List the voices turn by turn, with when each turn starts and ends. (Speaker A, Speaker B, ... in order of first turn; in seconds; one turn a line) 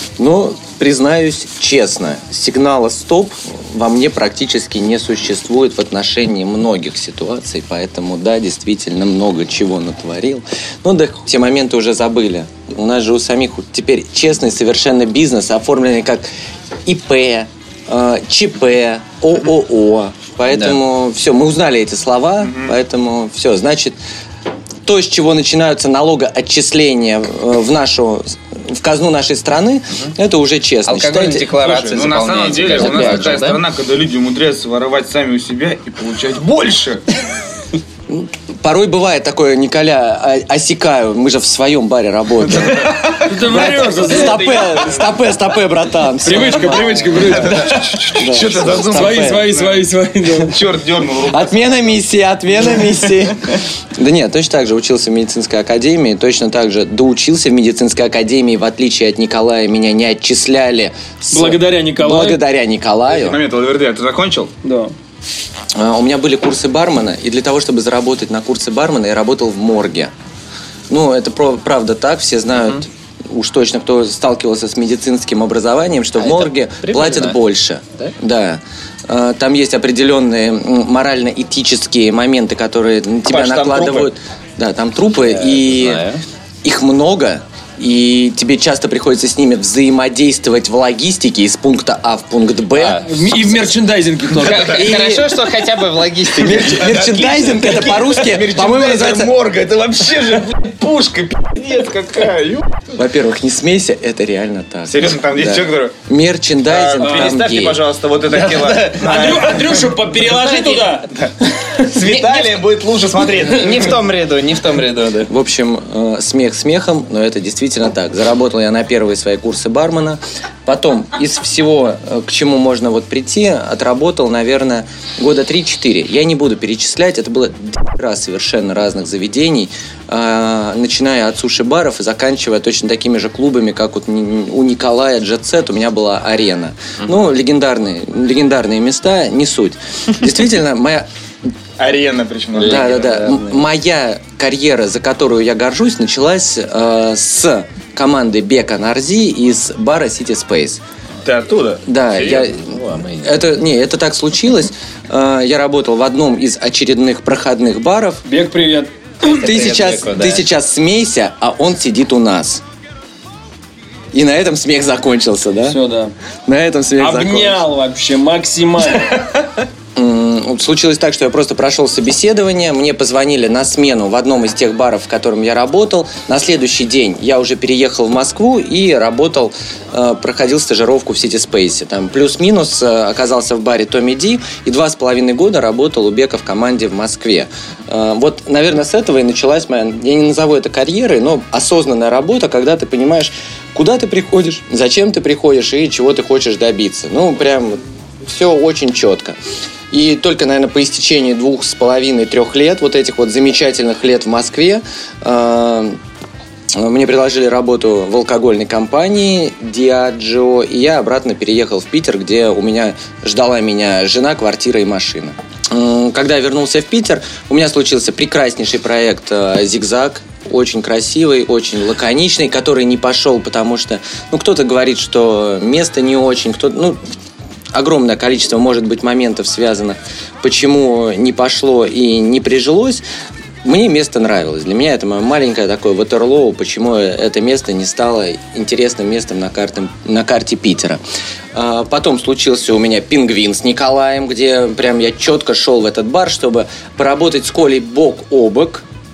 Speaker A: 0.2-16.3
Speaker A: 16.9-24.0
Speaker B: 22.4-22.8
Speaker A: 24.9-31.5
Speaker C: 30.9-33.6
Speaker B: 31.6-37.0
Speaker A: 32.8-33.4
Speaker A: 38.1-49.6
Speaker B: 42.5-45.0
Speaker D: 43.2-44.8
Speaker D: 46.2-50.6
Speaker B: 46.8-51.9
Speaker A: 51.3-63.4
Speaker D: 61.3-62.4
Speaker B: 63.1-64.5
Speaker D: 64.6-64.9
Speaker A: 65.8-70.1
Speaker A: 70.9-86.1
Speaker C: 76.2-77.4
Speaker B: 83.3-84.1
Speaker C: 85.3-86.2
Speaker A: 86.6-93.6
Speaker C: 92.8-93.1
Speaker D: 93.0-94.9
Speaker C: 94.3-97.1
Speaker A: 94.5-95.4
Speaker A: 96.3-99.3
Speaker B: 96.6-102.7
Speaker A: 103.0-107.8
Speaker B: 104.9-106.0
Speaker B: 106.7-114.0
Speaker D: 107.0-107.4
Speaker C: 108.3-109.5
Speaker D: 109.0-111.1
Speaker C: 111.9-112.6
Speaker C: 113.4-115.3
Speaker A: 115.3-141.1
Speaker B: 141.8-143.2
Speaker C: 142.6-143.6
Speaker A: 142.6-150.8
Speaker B: 151.2-152.5
Speaker A: 151.8-158.2
Speaker C: 152.2-153.3
Speaker D: 158.3-158.9
Speaker C: 159.2-160.4
Speaker A: 159.2-162.6
Speaker A: 164.1-165.8
Speaker D: 165.7-166.1
Speaker A: 166.5-167.7
Speaker D: 167.0-169.2
Speaker A: 170.0-199.4
Speaker A: 199.9-206.0
Speaker A: 206.7-227.0
Speaker A: 227.7-233.0
Speaker A: 233.6-241.0
Speaker A: 241.5-248.8